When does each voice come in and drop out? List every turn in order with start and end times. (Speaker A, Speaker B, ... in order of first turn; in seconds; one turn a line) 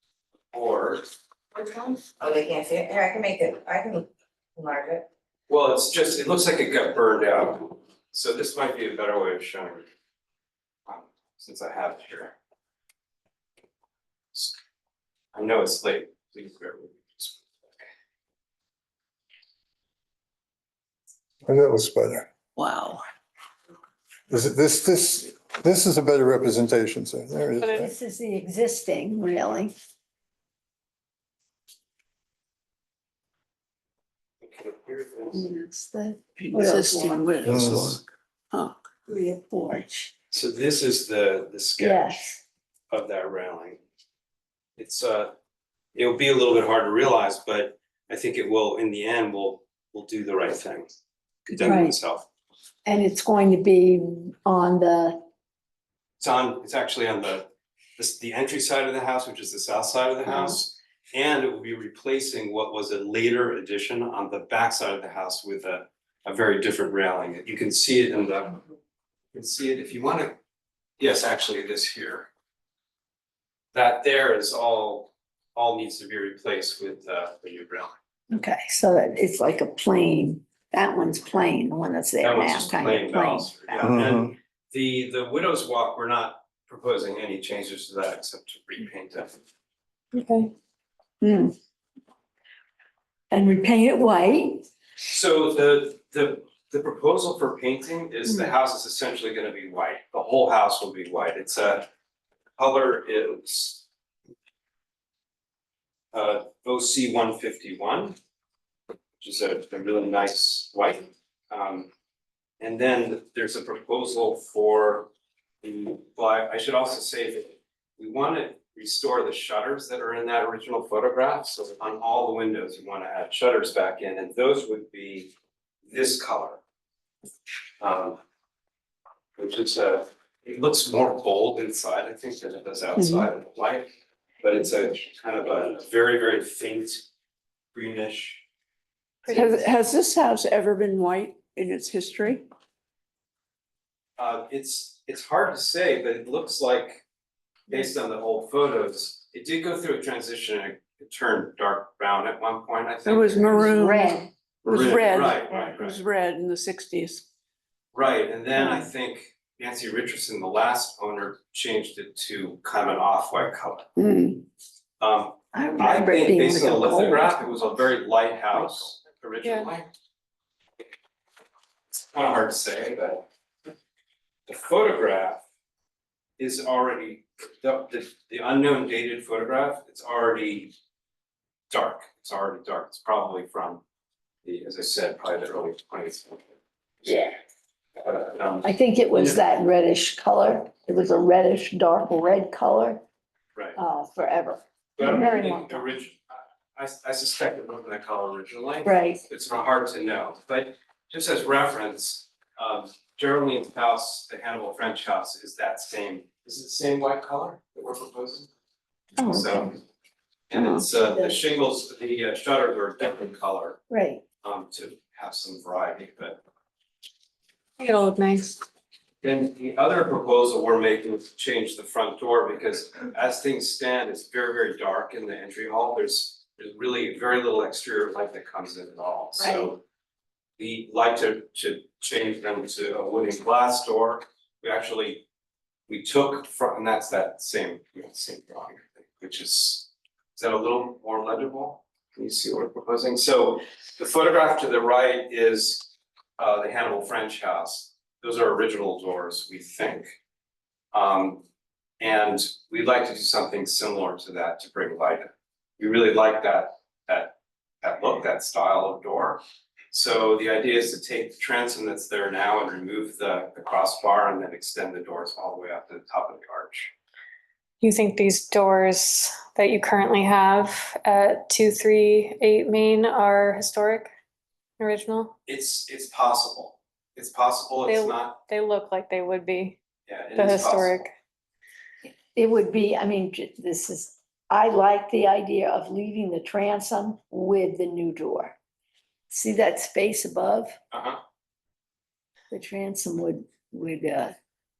Speaker A: 0.5-1.0
Speaker B: 1.5-4.0
Speaker B: 4.6-5.0
Speaker A: 5.5-9.8
Speaker A: 10.8-12.3
Speaker A: 15.3-17.7
Speaker C: 21.5-22.3
Speaker D: 22.6-23.0
Speaker C: 24.3-27.9
Speaker E: 27.6-27.9
Speaker F: 27.8-29.7
Speaker A: 34.4-35.4
Speaker F: 35.3-37.5
Speaker D: 36.4-38.8
Speaker C: 37.5-38.0
Speaker F: 39.1-40.1
Speaker A: 40.3-42.3
Speaker F: 41.8-42.4
Speaker A: 42.9-43.8
Speaker A: 44.8-45.3
Speaker A: 46.0-50.9
Speaker A: 51.5-52.3
Speaker F: 51.6-52.0
Speaker F: 52.8-55.2
Speaker A: 56.2-68.6
Speaker F: 60.2-60.6
Speaker A: 69.3-70.3
Speaker A: 71.0-72.3
Speaker A: 73.7-77.9
Speaker F: 78.3-83.9
Speaker A: 82.2-89.4
Speaker E: 90.1-90.5
Speaker F: 91.2-91.5
Speaker F: 93.3-94.6
Speaker A: 95.0-101.9
Speaker A: 102.6-103.8
Speaker A: 106.1-108.2
Speaker A: 109.2-111.9
Speaker A: 112.6-115.1
Speaker A: 115.6-125.3
Speaker A: 125.9-126.6
Speaker A: 127.8-128.2
Speaker A: 129.4-133.9
Speaker D: 133.0-133.2
Speaker A: 134.4-137.1
Speaker A: 137.7-138.4
Speaker E: 139.2-139.7
Speaker A: 139.2-139.6
Speaker D: 139.3-142.4
Speaker A: 144.2-147.0
Speaker A: 147.7-153.7
Speaker D: 153.0-157.2
Speaker F: 153.5-154.3
Speaker A: 154.6-156.0
Speaker A: 157.9-163.9
Speaker F: 158.6-158.9
Speaker D: 163.9-164.4
Speaker A: 165.0-169.9
Speaker F: 165.5-167.3
Speaker E: 169.4-169.7
Speaker A: 171.9-173.2
Speaker A: 174.5-175.4
Speaker A: 176.4-180.7
Speaker A: 181.7-183.8
Speaker A: 184.4-186.5
Speaker A: 187.0-187.3
Speaker F: 187.1-187.3
Speaker A: 187.9-188.7
Speaker F: 188.6-193.0
Speaker F: 193.8-196.0
Speaker A: 195.0-208.5
Speaker F: 198.8-199.2
Speaker F: 209.2-209.7
Speaker A: 209.2-209.8
Speaker A: 210.5-213.8
Speaker F: 210.5-211.4
Speaker F: 213.9-214.2
Speaker A: 214.4-216.4
Speaker E: 217.8-218.6
Speaker A: 219.2-229.8
Speaker F: 229.4-229.7
Speaker A: 230.6-235.2
Speaker A: 235.9-250.1
Speaker A: 250.9-251.4
Speaker A: 252.0-266.9
Speaker E: 267.8-274.1
Speaker E: 274.8-275.3
Speaker A: 275.4-278.4
Speaker E: 277.9-279.8
Speaker A: 280.1-281.0
Speaker E: 280.3-281.1
Speaker F: 282.0-288.6
Speaker F: 289.3-290.8
Speaker A: 290.9-291.2
Speaker F: 292.5-294.3